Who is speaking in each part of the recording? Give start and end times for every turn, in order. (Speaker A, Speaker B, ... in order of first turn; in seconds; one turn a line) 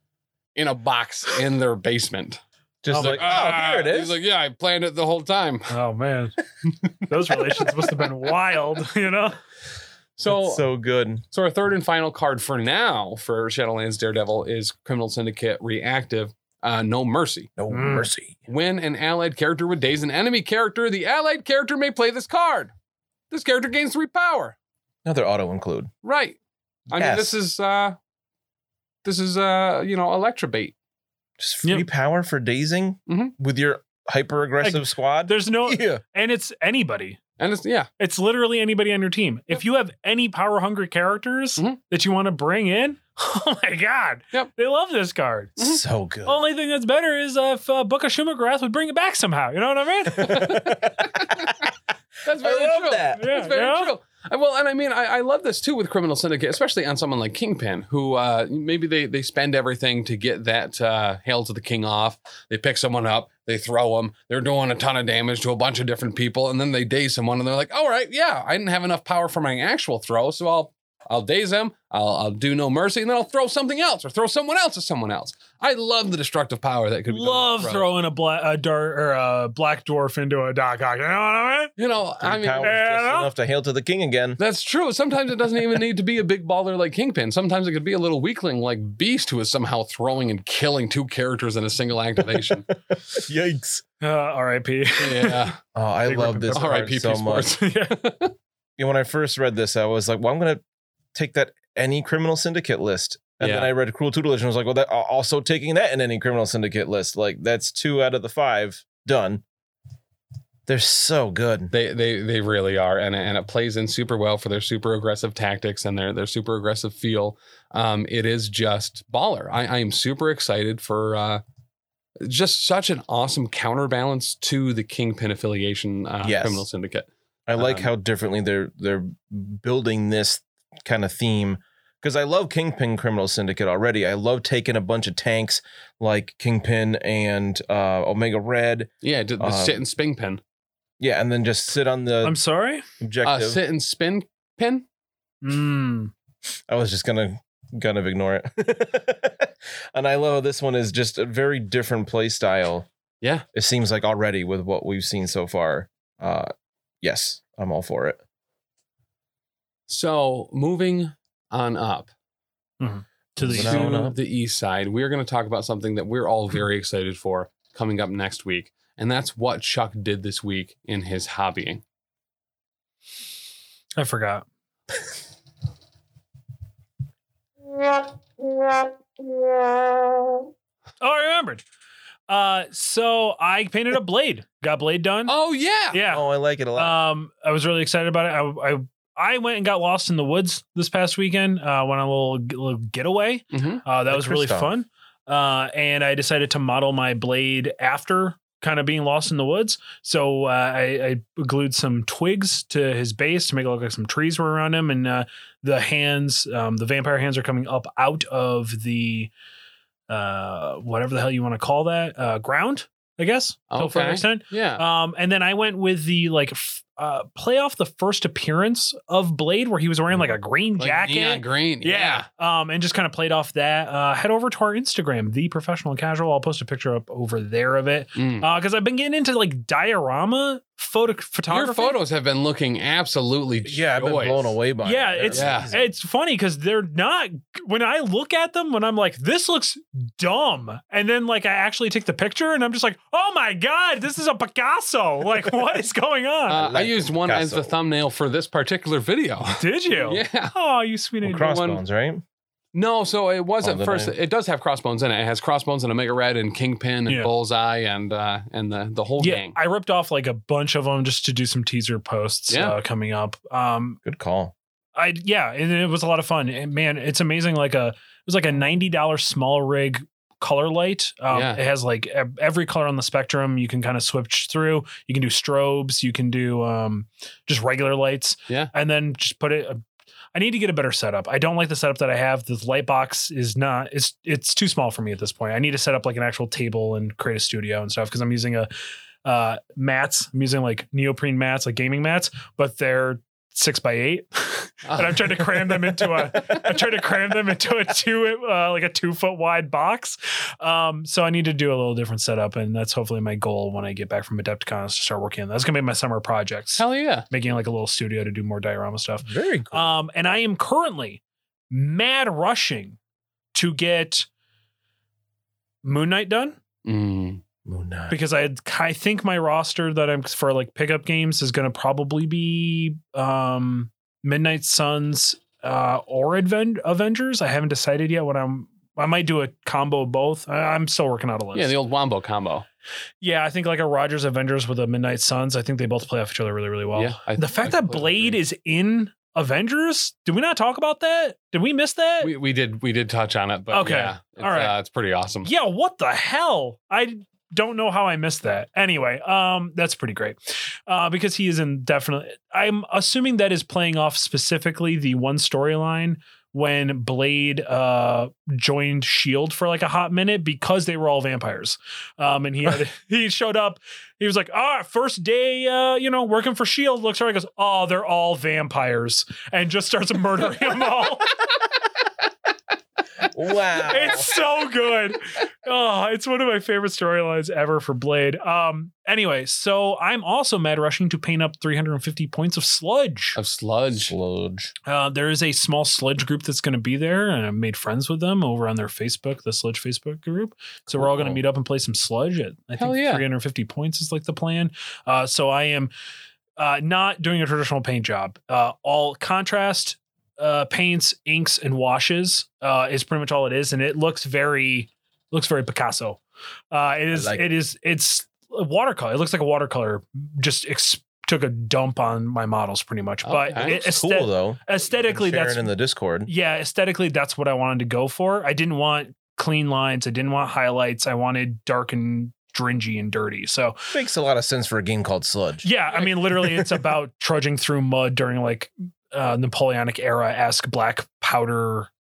Speaker A: 0.6-2.4
Speaker B: 2.8-4.2
Speaker C: 2.9-3.4
Speaker A: 3.0-5.7
Speaker C: 5.7-6.3
Speaker C: 7.0-9.4
Speaker A: 10.2-10.6
Speaker B: 10.2-11.2
Speaker A: 11.3-17.5
Speaker B: 17.6-18.5
Speaker C: 17.7-18.1
Speaker A: 18.5-22.7
Speaker A: 23.3-24.5
Speaker B: 25.0-25.9
Speaker A: 26.0-26.4
Speaker A: 26.9-28.0
Speaker B: 26.9-27.3
Speaker A: 29.0-30.7
Speaker B: 31.4-36.0
Speaker A: 33.1-33.3
Speaker C: 34.6-37.2
Speaker A: 37.4-37.9
Speaker C: 38.0-45.6
Speaker B: 45.6-46.4
Speaker C: 46.2-50.7
Speaker A: 50.2-51.7
Speaker B: 50.3-51.4
Speaker A: 52.2-77.9
Speaker B: 52.4-53.2
Speaker C: 53.1-53.9
Speaker C: 77.1-81.7
Speaker A: 81.8-82.8
Speaker B: 82.2-84.4
Speaker C: 82.6-83.3
Speaker A: 84.4-92.7
Speaker B: 93.1-93.8
Speaker C: 94.0-95.5
Speaker A: 95.0-95.6
Speaker B: 95.7-97.5
Speaker C: 96.1-96.7
Speaker A: 96.5-98.3
Speaker C: 97.4-98.0
Speaker B: 98.8-100.6
Speaker B: 101.1-109.4
Speaker A: 103.4-103.7
Speaker B: 110.7-111.7
Speaker A: 111.7-121.4
Speaker A: 122.2-127.9
Speaker B: 126.2-126.6
Speaker B: 127.5-139.8
Speaker A: 139.0-140.4
Speaker B: 141.0-142.4
Speaker C: 142.2-142.8
Speaker B: 143.0-143.6
Speaker A: 143.2-144.8
Speaker C: 145.4-146.1
Speaker B: 146.7-152.9
Speaker B: 153.5-156.5
Speaker B: 157.0-158.2
Speaker A: 159.9-162.1
Speaker C: 162.8-164.0
Speaker B: 163.4-164.2
Speaker A: 163.5-171.8
Speaker C: 174.0-174.4
Speaker C: 181.0-181.6
Speaker C: 182.3-185.3
Speaker A: 185.3-186.0
Speaker C: 185.9-186.2
Speaker B: 186.1-187.0
Speaker C: 186.8-209.3
Speaker A: 193.5-193.8
Speaker B: 194.1-194.7
Speaker C: 210.1-232.0
Speaker A: 213.7-214.8
Speaker A: 220.8-222.2
Speaker A: 228.1-228.4
Speaker A: 231.5-234.5
Speaker B: 233.7-235.9
Speaker C: 234.8-246.7
Speaker A: 235.3-235.7
Speaker A: 246.5-250.5
Speaker B: 246.6-247.7
Speaker C: 249.6-251.5
Speaker B: 251.2-252.2
Speaker A: 251.4-251.8
Speaker A: 252.7-259.6
Speaker B: 253.6-254.1
Speaker C: 257.1-257.3
Speaker C: 259.2-264.0
Speaker A: 262.5-262.8
Speaker B: 264.0-264.5
Speaker C: 264.9-279.8
Speaker A: 271.3-271.6
Speaker C: 280.3-288.7
Speaker C: 289.2-313.0
Speaker A: 294.9-296.8
Speaker A: 306.8-307.3
Speaker B: 309.2-309.9
Speaker C: 313.5-314.3
Speaker C: 315.8-316.6
Speaker A: 316.8-317.4
Speaker B: 317.6-318.2
Speaker C: 318.1-331.8
Speaker A: 331.5-332.6
Speaker C: 333.2-342.3
Speaker A: 336.9-338.4
Speaker A: 342.2-345.5
Speaker C: 343.7-344.7
Speaker C: 345.4-371.4
Speaker B: 373.2-374.3
Speaker C: 373.7-383.4
Speaker A: 383.4-384.1
Speaker B: 383.9-384.7
Speaker C: 384.9-395.9
Speaker B: 390.9-391.4
Speaker A: 392.8-393.2
Speaker C: 396.6-406.2
Speaker C: 406.7-415.7
Speaker B: 407.1-407.5
Speaker A: 413.2-413.8
Speaker B: 413.6-416.3
Speaker C: 416.3-423.9
Speaker B: 423.9-425.6
Speaker C: 425.6-431.9